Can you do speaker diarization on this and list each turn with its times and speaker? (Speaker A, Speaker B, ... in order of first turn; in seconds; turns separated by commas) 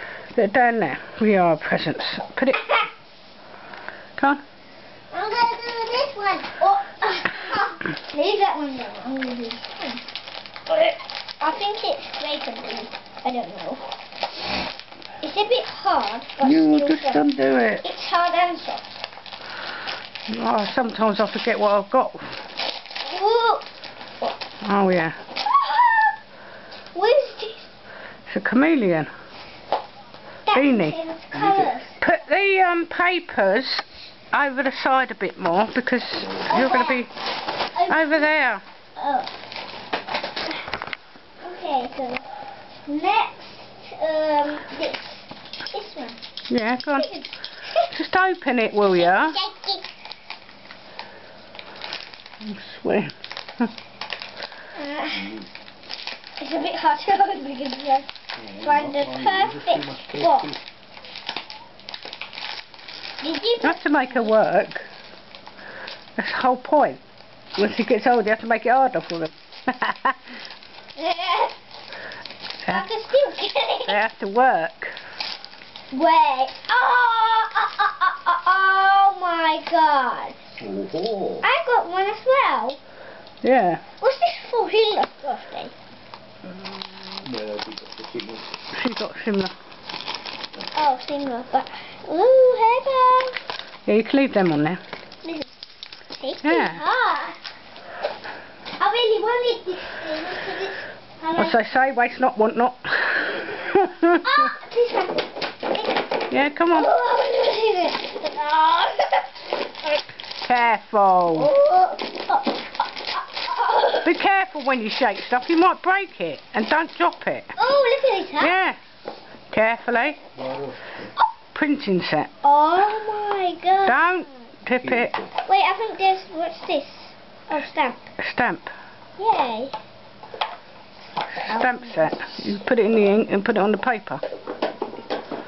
Speaker A: 0.3-2.7, Speaker B: 5.1-10.0, Speaker B: 10.7-13.9, Speaker B: 15.2-18.8, Speaker A: 16.4-17.8, Speaker A: 20.3-22.4, Speaker B: 23.0-23.6, Speaker A: 24.6-25.2, Speaker B: 25.4-26.1, Speaker B: 26.9-27.7, Speaker A: 28.3-29.1, Speaker B: 30.5-32.0, Speaker A: 30.5-31.0, Speaker A: 32.0-37.1, Speaker B: 36.5-37.1, Speaker B: 37.7-38.4, Speaker A: 37.9-38.6, Speaker B: 39.0-39.3, Speaker B: 41.4-42.2, Speaker B: 42.9-46.2, Speaker A: 46.5-47.1, Speaker B: 46.9-47.9, Speaker A: 47.9-49.4, Speaker B: 48.9-49.9, Speaker A: 52.4-53.7, Speaker B: 54.7-55.4, Speaker B: 56.4-60.5, Speaker C: 58.4-60.5, Speaker B: 63.2-64.3, Speaker A: 63.6-64.8, Speaker A: 66.2-67.0, Speaker A: 67.6-70.4, Speaker B: 71.0-71.6, Speaker B: 72.7-74.0, Speaker A: 73.9-75.0, Speaker B: 75.9-80.4, Speaker C: 80.6-81.4, Speaker B: 81.4-82.8, Speaker A: 83.4-83.8, Speaker B: 84.0-85.7, Speaker C: 87.2-88.5, Speaker A: 88.7-89.5, Speaker B: 90.7-93.4, Speaker A: 93.8-94.8, Speaker B: 95.2-95.5, Speaker B: 96.2-97.4, Speaker A: 96.4-96.8, Speaker B: 98.8-101.6, Speaker A: 101.3-104.5, Speaker B: 104.2-109.6, Speaker A: 106.3-106.9, Speaker A: 110.4-111.5, Speaker B: 111.3-114.1, Speaker A: 114.0-117.5, Speaker B: 117.6-118.6, Speaker A: 118.4-118.8, Speaker A: 119.5-120.2, Speaker C: 120.5-120.7, Speaker A: 121.5-122.3, Speaker B: 122.4-124.3, Speaker A: 123.8-125.3, Speaker B: 125.4-128.1, Speaker A: 128.2-128.7, Speaker B: 129.2-129.8, Speaker A: 131.4-134.2, Speaker B: 131.5-132.2